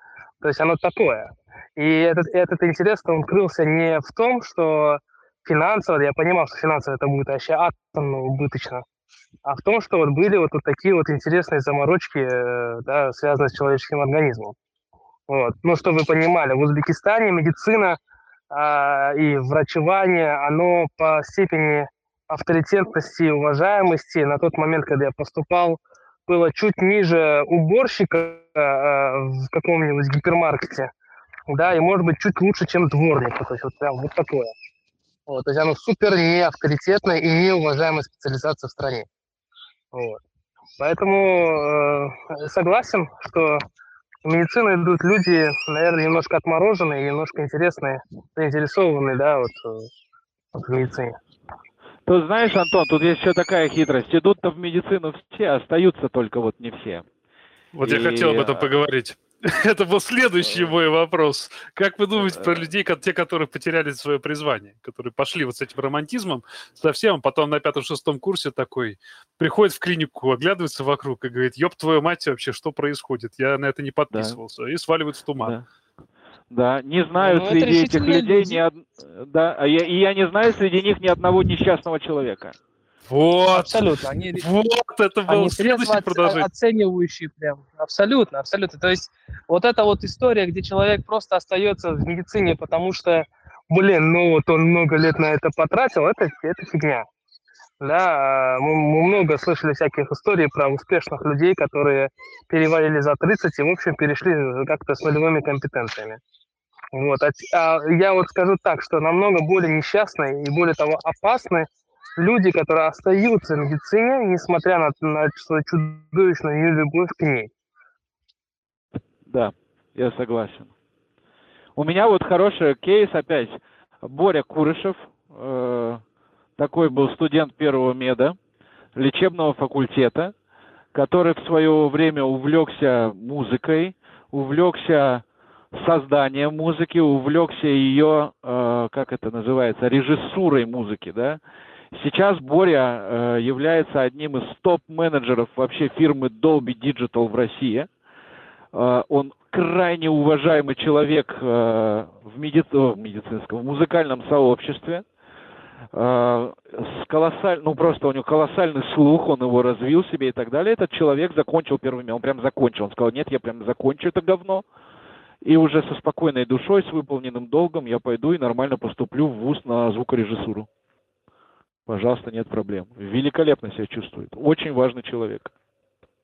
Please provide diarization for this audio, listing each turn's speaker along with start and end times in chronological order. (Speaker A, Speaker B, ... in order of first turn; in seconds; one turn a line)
Speaker A: 0.4-8.8
Speaker A: 9.4-14.6
Speaker A: 15.3-18.0
Speaker A: 18.5-30.9
Speaker A: 31.5-34.5
Speaker A: 35.3-39.1
Speaker A: 39.9-40.2
Speaker A: 40.8-43.6
Speaker A: 44.2-49.9
Speaker A: 50.5-51.2
Speaker B: 52.1-57.1
Speaker C: 57.7-75.5
Speaker B: 57.8-58.7
Speaker B: 62.2-62.5
Speaker B: 74.1-74.4
Speaker B: 75.4-75.7
Speaker B: 76.5-82.6
Speaker A: 77.2-78.6
Speaker C: 83.1-86.5
Speaker A: 83.5-84.5
Speaker A: 85.3-97.1
Speaker A: 97.8-106.2
Speaker A: 106.9-117.5
Speaker B: 119.3-120.7
Speaker B: 121.8-126.0
Speaker B: 126.6-128.4
Speaker B: 129.0-130.3
Speaker B: 130.9-141.4
Speaker B: 141.9-147.9
Speaker B: 148.7-155.1
Speaker B: 155.9-164.7
Speaker B: 165.4-170.7
Speaker B: 171.9-175.5